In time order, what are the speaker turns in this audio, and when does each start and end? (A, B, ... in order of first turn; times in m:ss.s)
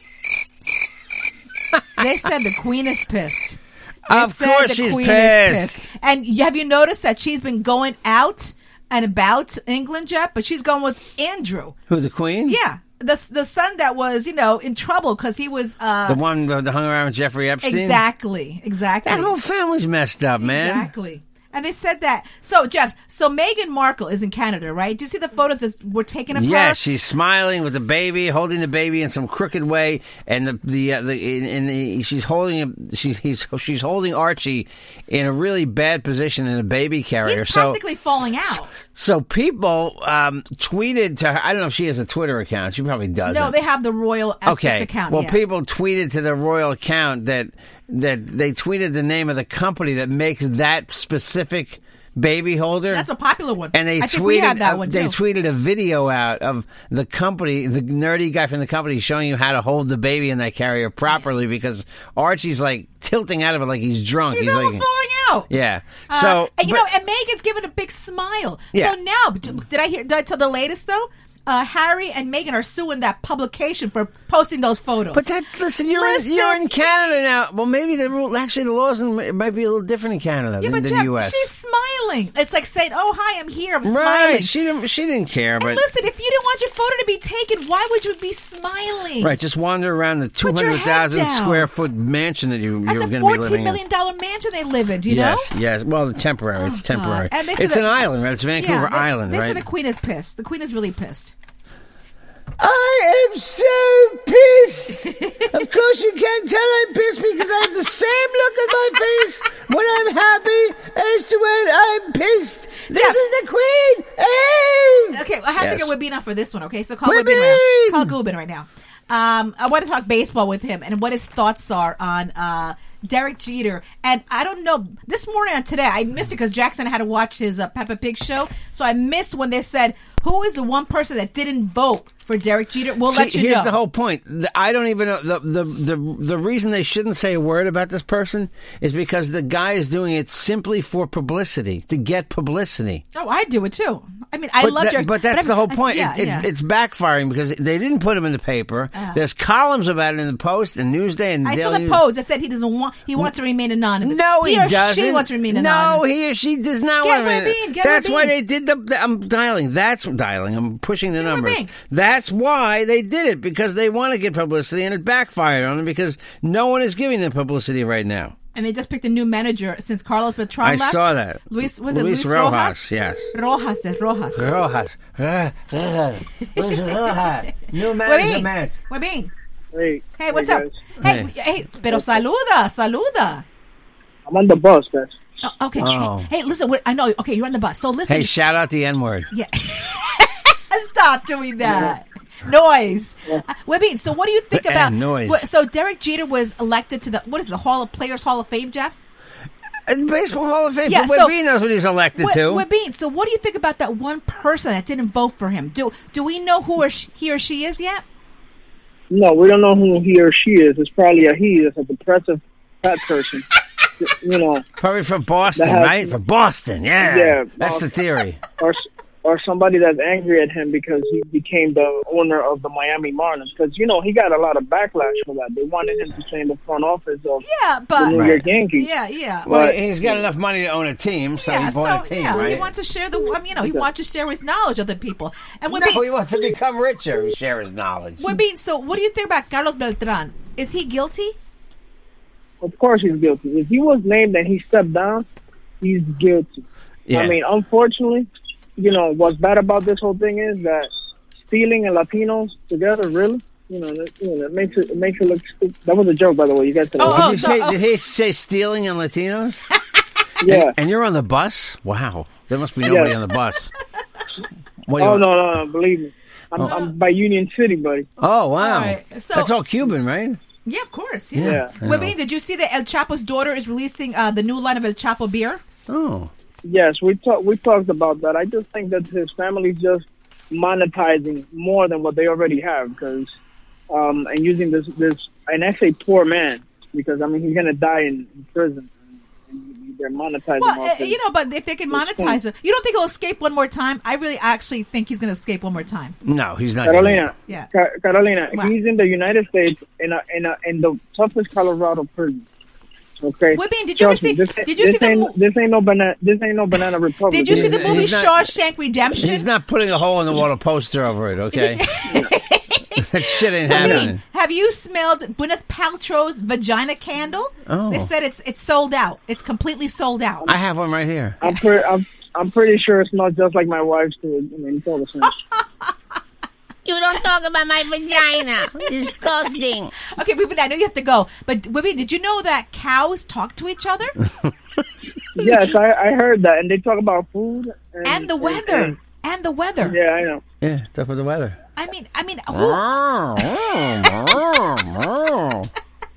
0:02.0-0:11.8 A
0:04.1-0:05.9 B
0:11.9-0:12.6 B
0:12.4-0:16.2 A
0:16.1-0:18.0 B
0:17.6-0:19.4 A
0:19.0-0:20.9 B
0:20.4-0:26.8 A
0:26.3-0:37.8 B
0:37.2-0:38.7 A
0:38.9-0:43.6 B
0:43.3-0:45.4 A
0:44.4-0:53.1 B
0:52.9-0:55.2 A
0:53.7-1:04.9 B
1:04.3-1:05.5 A
1:05.5-1:06.9 B
1:06.1-1:15.3 A
1:15.1-1:21.5 B
1:15.9-1:16.9 A
1:20.6-1:24.5 A
1:23.8-1:25.8 B
1:25.6-1:29.3 A
1:29.2-1:33.8 B
1:30.4-1:31.7 A
1:32.9-1:35.5 A
1:35.1-1:39.6 B
1:36.6-1:38.0 A
1:38.6-1:41.3 A
1:42.6-1:55.9 B
1:45.1-1:45.5 A
1:52.9-1:53.2 A
1:55.1-2:13.8 A
1:57.0-1:58.1 B
2:13.1-2:23.0 B
2:23.1-2:26.5 A
2:24.6-2:32.0 B
2:28.9-2:29.2 A
2:31.4-2:36.1 A
2:34.0-2:48.4 B
2:37.0-2:38.4 A
2:41.2-2:41.7 A
2:48.6-2:54.5 A
2:50.6-2:53.3 B
2:54.4-2:58.8 B
2:56.4-2:57.1 A
2:57.9-2:59.3 A
2:59.7-3:00.8 C
3:00.2-3:03.4 A
3:01.0-3:01.3 B
3:04.3-3:05.2 C
3:05.4-3:08.3 A
3:05.8-3:06.3 B
3:08.1-3:09.3 B
3:09.3-3:19.0 A
3:11.6-3:11.9 C
3:14.5-3:15.5 B
3:19.9-3:22.6 B
3:20.9-3:21.4 A
3:22.2-3:28.0 A
3:29.1-3:33.5 C
3:34.0-3:34.7 C
3:34.8-3:38.4 B
3:35.6-3:36.1 C
3:37.0-3:37.9 C
3:38.6-3:47.4 C
3:47.4-3:49.5 A
3:48.0-3:48.9 C
3:48.1-3:48.5 B
3:49.5-3:49.8 C
3:49.5-3:52.7 B
3:51.4-3:56.1 A
3:55.7-3:58.3 B
3:58.2-4:01.4 A
4:02.6-4:05.3 C
4:05.8-4:10.9 C
4:07.1-4:07.4 B
4:11.5-4:17.4 C
4:17.0-4:17.8 A
4:17.0-4:19.6 B
4:20.4-4:20.7 C
4:20.4-4:23.7 B
4:22.8-4:23.1 C
4:24.9-4:25.3 B
4:25.0-4:28.1 C
4:26.6-4:26.9 A
4:28.2-4:30.4 B
4:28.6-4:29.5 A
4:30.7-4:35.6 A
4:31.4-4:32.1 B
4:31.4-4:31.7 C
4:35.9-4:36.3 B
4:36.6-4:43.3 C
4:43.9-4:49.0 C
4:49.5-4:51.2 C
4:50.6-4:56.2 A
4:51.9-4:52.4 C
4:56.2-4:57.3 B
4:56.8-5:02.5 C
5:03.2-5:08.1 C
5:03.5-5:05.4 A
5:07.3-5:09.5 A
5:07.5-5:08.5 B
5:09.2-5:11.9 B
5:11.5-5:20.5 A
5:12.1-5:12.3 C
5:13.0-5:14.2 B
5:13.7-5:14.1 C
5:17.7-5:18.1 B
5:20.4-5:21.4 B
5:21.4-5:25.4 C
5:25.3-5:25.9 A
5:26.8-5:29.9 D
5:30.0-5:34.2 A
5:35.4-5:39.0 C
5:38.0-5:40.0 A
5:39.8-5:40.4 C
5:40.6-5:41.6 B
5:41.8-5:42.8 A
5:42.5-5:45.7 B
5:43.4-5:44.4 A